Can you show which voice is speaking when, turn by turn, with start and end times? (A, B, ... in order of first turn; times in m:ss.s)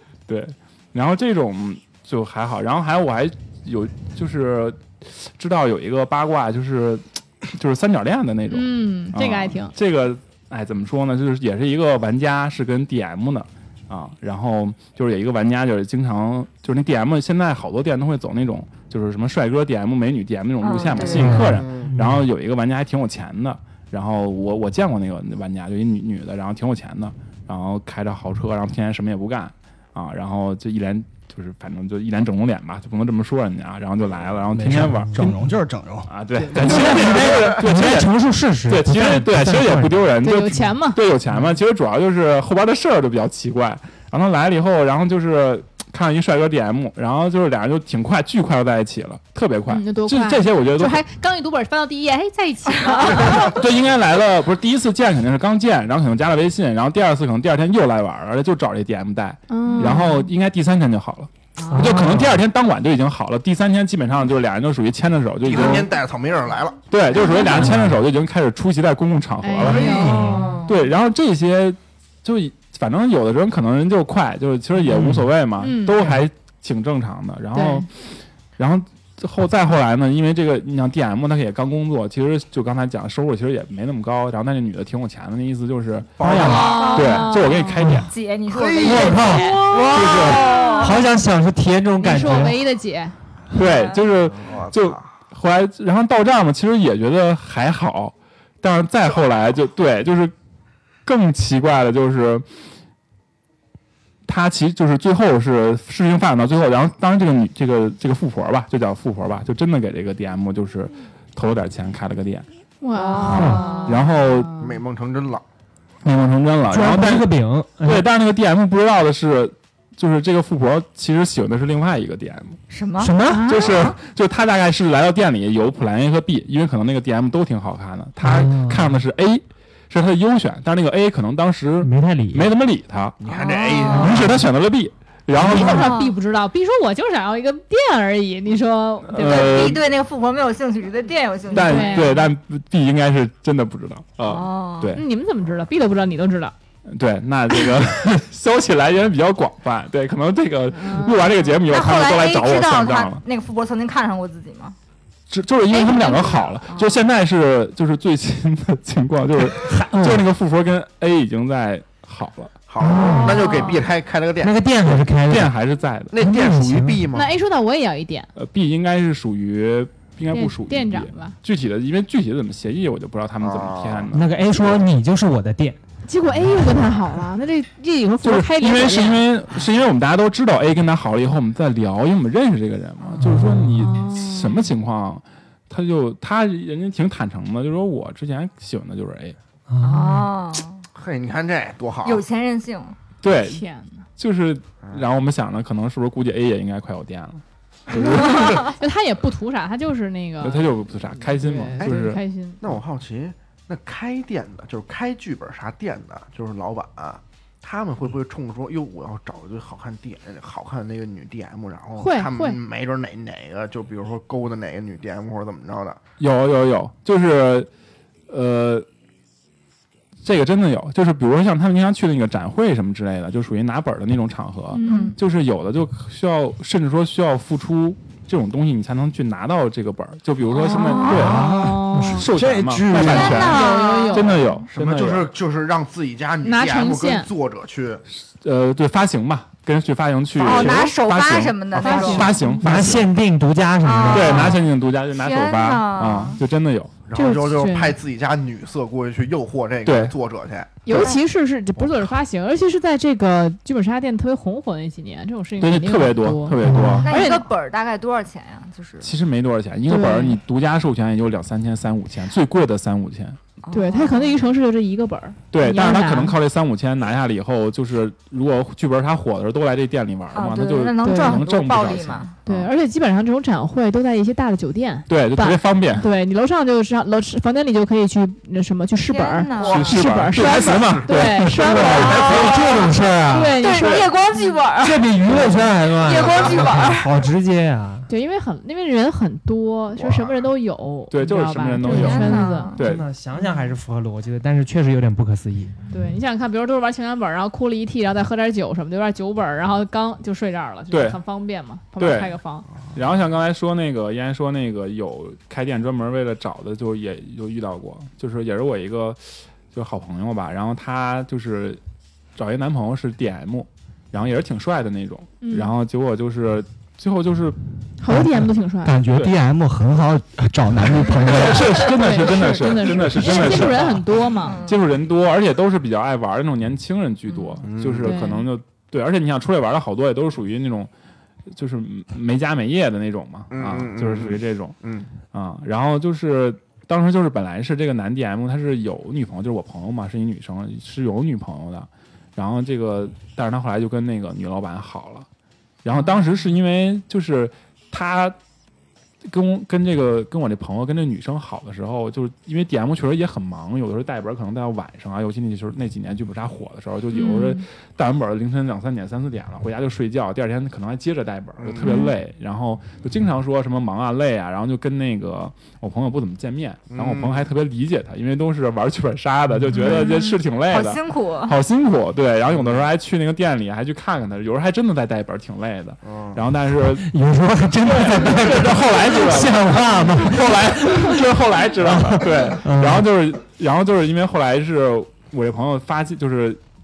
0:00.3-0:35.2 A
0:08.5-0:09.7 B
0:20.6-0:21.5 C
0:21.0-0:21.9 D
0:21.1-0:22.2 E
0:34.5-0:36.5 F
0:35.0-0:35.4 E
0:36.1-0:51.0 A
0:36.5-0:40.2 E
0:37.0-0:37.3 D
0:40.2-0:41.0 B
0:49.7-0:53.6 B
0:52.8-0:53.4 C
0:53.2-1:05.9 A
0:59.5-1:00.3 B
1:01.7-1:02.4 E
1:05.4-1:06.8 D
1:06.9-1:10.1 A
1:07.6-1:08.0 E
1:09.4-1:10.5 B
1:09.7-1:10.6 E
1:09.7-1:10.7 C
1:09.7-1:10.3 D
1:10.7-1:26.2 A
1:14.9-1:15.3 E
1:15.6-1:16.0 B
1:17.5-1:17.9 B
1:26.2-1:27.2 D
1:26.2-1:26.9 E
1:26.4-1:27.5 C
1:26.8-1:27.8 B
1:26.9-1:28.1 A
1:27.8-1:28.1 E
1:28.1-1:31.0 C
1:28.4-1:30.9 D
1:28.8-1:32.6 E
1:29.0-1:29.8 B
1:29.9-1:30.4 A
1:32.0-1:33.2 B
1:33.5-1:40.3 A
1:33.6-1:34.0 C
1:34.4-1:35.1 D
1:41.0-1:42.5 A
1:44.3-1:52.4 A
1:52.8-1:54.8 B
1:53.0-1:54.1 C
1:53.2-1:53.8 E
1:53.9-1:54.5 A
1:54.6-1:55.4 D
1:56.0-2:02.6 A
1:56.7-1:58.1 E
2:02.7-2:03.1 C
2:03.0-2:03.6 E
2:03.3-2:03.7 B
2:03.4-2:13.2 A
2:08.2-2:09.0 E
2:11.8-2:12.4 E
2:13.2-2:14.3 D
2:13.3-2:14.1 B
2:13.7-2:14.2 C
2:14.0-2:15.9 A
2:14.1-2:14.4 E
2:15.4-2:19.8 B
2:15.4-2:15.8 E
2:15.6-2:16.2 C
2:19.1-2:19.8 A
2:19.1-2:22.2 C
2:21.5-2:25.0 A
2:21.5-2:22.3 B
2:24.2-2:25.0 C
2:25.0-2:26.6 B
2:26.9-2:33.2 A
2:30.7-2:31.2 B
2:31.6-2:34.8 C
2:35.3-2:42.5 A
2:35.7-2:37.0 C
2:39.6-2:40.2 E
2:42.7-2:44.7 D
2:42.8-2:43.6 E
2:43.0-2:43.8 C
2:44.4-2:45.6 E
2:45.2-2:46.2 A
2:46.1-2:47.3 D
2:46.2-2:47.1 E
2:47.1-2:48.3 B
2:48.4-2:54.8 A
2:50.3-2:51.4 B
2:53.4-2:54.1 D
2:54.1-2:55.8 E
2:56.1-2:59.2 B
2:56.5-2:56.8 E
2:58.2-3:09.4 A
3:03.2-3:04.1 E
3:03.8-3:04.7 B
3:09.7-3:10.3 E
3:09.8-3:10.9 C
3:10.9-3:12.2 D
3:12.0-3:13.0 C
3:13.2-3:13.6 A
3:13.4-3:14.0 B
3:14.2-3:18.6 A
3:17.9-3:18.6 D
3:18.1-3:22.6 B
3:18.3-3:18.6 C
3:20.4-3:22.2 A
3:22.6-3:36.0 D
3:32.0-3:32.6 B
3:36.2-3:37.7 A
3:38.3-3:38.9 A
3:40.2-3:51.5 A
3:44.7-3:45.2 B
3:44.9-3:45.2 C
3:50.6-3:51.4 C
3:50.6-3:52.2 B
3:51.2-3:53.4 F
3:51.4-3:52.3 E
3:52.2-3:55.3 A
3:53.0-3:54.4 C
3:53.2-3:54.4 B
3:54.7-3:58.0 D
3:56.4-3:57.3 B
3:58.4-4:03.1 A
4:00.4-4:02.4 C
4:01.7-4:02.3 D
4:01.8-4:02.6 B
4:02.6-4:04.6 E
4:03.8-4:04.6 C
4:04.1-4:06.9 A
4:05.1-4:06.4 C
4:07.1-4:11.1 D
4:07.1-4:08.0 B
4:09.8-4:10.2 A
4:10.8-4:17.5 B
4:11.8-4:12.1 D
4:15.6-4:17.1 A
4:16.6-4:17.1 E
4:17.0-4:19.1 C
4:19.0-4:23.4 A
4:19.9-4:20.4 B
4:23.6-4:24.4 C
4:23.7-4:26.4 B
4:25.5-4:32.7 A
4:30.3-4:32.4 C
4:31.0-4:31.4 B
4:32.4-4:42.5 B
4:35.1-4:36.1 A
4:38.9-4:40.6 C
4:39.6-4:42.9 A
4:41.4-4:43.6 E
4:41.8-4:42.6 C
4:42.6-4:42.8 D
4:43.3-4:44.9 B
4:43.6-4:47.1 C
4:43.7-4:44.1 A
4:44.8-4:48.1 E
4:46.2-4:46.7 D
4:48.1-4:52.7 B
4:50.0-4:50.4 D
4:51.1-4:53.1 A
4:51.8-4:52.8 C
4:52.3-4:55.7 E
4:53.4-4:53.7 B
4:55.9-5:02.6 B
5:00.9-5:01.2 A
5:02.0-5:02.4 A
5:02.9-5:11.8 A
5:12.4-5:17.6 A
5:15.4-5:15.7 B
5:18.0-5:19.0 B
5:18.8-5:21.9 F
5:21.2-5:24.1 A
5:21.2-5:24.6 B
5:22.8-5:23.9 F
5:24.4-5:24.8 C
5:24.6-5:30.9 A
5:27.3-5:27.6 C
5:27.6-5:28.2 D
5:28.0-5:28.5 B
5:31.5-5:34.8 A
5:33.5-5:35.1 D
5:35.3-5:45.3 A
5:45.8-5:48.4 A
5:49.2-6:17.1 A
5:57.1-5:57.6 B
6:01.6-6:02.1 D
6:01.9-6:02.1 B
6:06.9-6:07.5 D
6:09.8-6:11.6 C
6:12.5-6:12.9 D
6:16.0-6:16.4 D
6:17.0-6:21.3 E
6:17.8-6:26.6 A
6:21.8-6:23.1 E